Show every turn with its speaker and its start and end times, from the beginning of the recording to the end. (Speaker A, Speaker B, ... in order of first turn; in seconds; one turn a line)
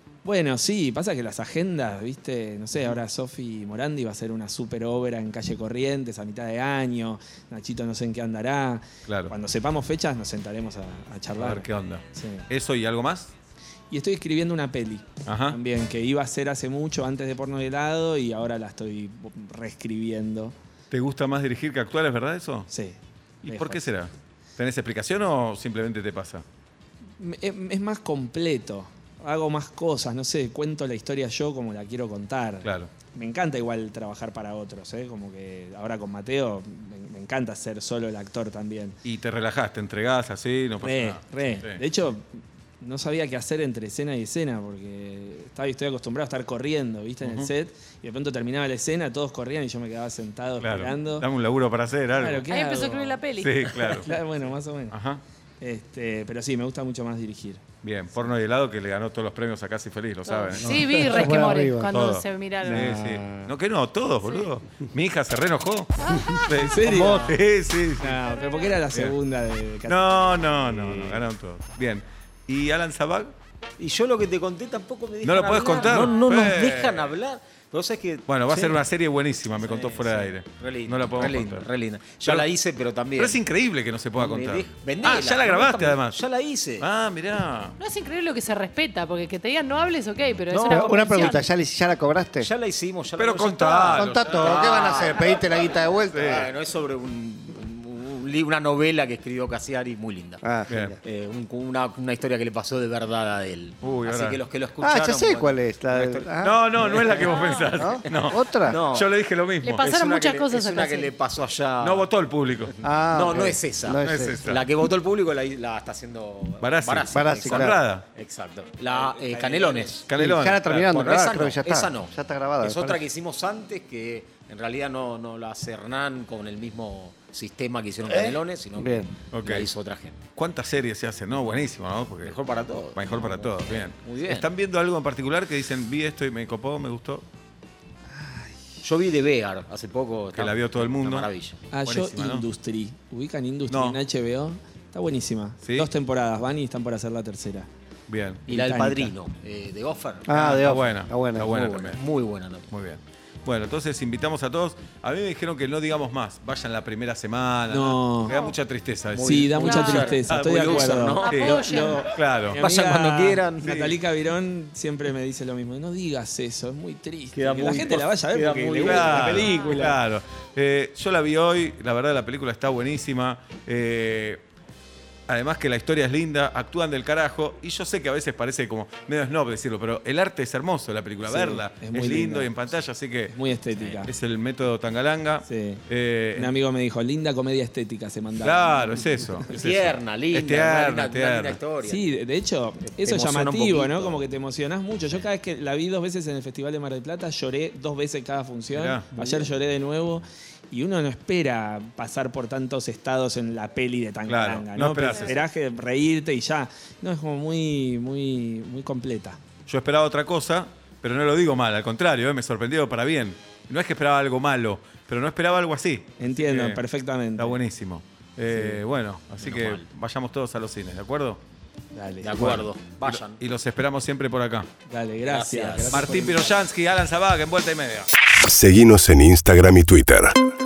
Speaker A: 0.2-12.5
Speaker B: 9.1-9.3
Speaker B: 11.4-13.3
Speaker A: 13.9-20.5
Speaker B: 15.2-15.6
Speaker B: 20.9-22.7
Speaker A: 22.7-23.9
Speaker B: 23.4-26.4
Speaker A: 27.2-39.0
Speaker B: 32.6-32.9
Speaker B: 39.0-41.8
Speaker A: 40.8-51.3
Speaker B: 47.2-47.5
Speaker B: 50.6-52.4
Speaker A: 52.1-53.2
Speaker C: 52.5-53.7
Speaker B: 53.4-54.1
Speaker A: 54.0-55.0
Speaker B: 54.9-55.2
Speaker A: 55.6-57.6
Speaker B: 57.8-60.8
Speaker C: 60.2-62.9
Speaker D: 60.6-61.9
Speaker B: 61.9-68.2
Speaker D: 62.7-63.5
Speaker C: 66.0-66.6
Speaker A: 66.6-67.4
Speaker D: 66.9-67.3
Speaker A: 68.0-71.2
Speaker B: 69.9-73.3
Speaker E: 73.8-78.8
Speaker B: 75.2-77.1
Speaker B: 78.3-81.7
Speaker E: 79.5-83.4
Speaker B: 83.2-86.2
Speaker E: 84.2-86.9
Speaker B: 86.8-87.8
Speaker C: 87.8-91.5
Speaker E: 90.5-90.9
Speaker D: 90.7-92.5
Speaker E: 92.4-95.4
Speaker B: 93.2-94.7
Speaker D: 93.8-96.5
Speaker B: 96.1-96.5
Speaker E: 96.2-100.4
Speaker D: 100.4-101.0
Speaker B: 100.7-101.0
Speaker E: 101.0-107.4
Speaker B: 103.8-104.4
Speaker D: 104.8-106.6
Speaker B: 106.4-109.8
Speaker C: 107.2-107.7
Speaker D: 107.7-108.8
Speaker E: 108.0-109.1
Speaker C: 109.6-111.1
Speaker E: 109.8-112.1
Speaker B: 111.8-112.7
Speaker D: 112.8-114.5
Speaker E: 112.9-120.1
Speaker B: 114.0-114.7
Speaker B: 116.6-118.0
Speaker D: 117.1-117.8
Speaker A: 118.9-120.0
Speaker B: 120.0-120.8
Speaker D: 120.2-123.0
Speaker E: 120.7-130.2
Speaker D: 128.1-129.1
Speaker B: 129.3-129.7
Speaker B: 130.4-132.4
Speaker E: 132.2-134.5
Speaker B: 132.9-137.2
Speaker A: 138.2-138.5
Speaker E: 138.8-141.7
Speaker B: 140.3-141.3
Speaker A: 141.7-147.7
Speaker B: 141.8-142.4
Speaker B: 143.7-144.0
Speaker B: 145.6-145.9
Speaker B: 148.1-148.4
Speaker E: 148.5-150.3
Speaker A: 148.5-149.1
Speaker D: 150.3-151.5
Speaker B: 150.3-152.0
Speaker E: 151.4-152.7
Speaker B: 152.7-159.5
Speaker A: 157.7-158.4
Speaker E: 159.1-162.0
Speaker A: 159.2-170.0
Speaker C: 159.6-160.2
Speaker B: 160.3-162.6
Speaker C: 161.2-162.1
Speaker E: 162.6-163.9
Speaker B: 163.7-163.9
Speaker E: 167.3-169.5
Speaker B: 168.8-174.4
Speaker B: 175.3-183.3
Speaker A: 181.2-182.5
Speaker A: 183.3-184.1
Speaker B: 184.1-186.5
Speaker A: 185.4-185.8
Speaker A: 186.3-189.2
Speaker B: 188.4-191.6
Speaker E: 189.5-192.1
Speaker A: 191.8-209.4
Speaker E: 192.8-194.2
Speaker B: 198.7-199.1
Speaker E: 199.2-199.5
Speaker B: 204.3-205.3
Speaker B: 209.7-216.8
Speaker A: 216.2-217.6
Speaker B: 217.4-221.4
Speaker A: 218.5-218.8
Speaker E: 219.4-219.9
Speaker A: 221.9-222.7
Speaker E: 222.2-223.4
Speaker B: 223.4-224.7
Speaker A: 224.9-226.6
Speaker E: 225.3-226.4
Speaker B: 225.9-228.1
Speaker F: 228.4-230.3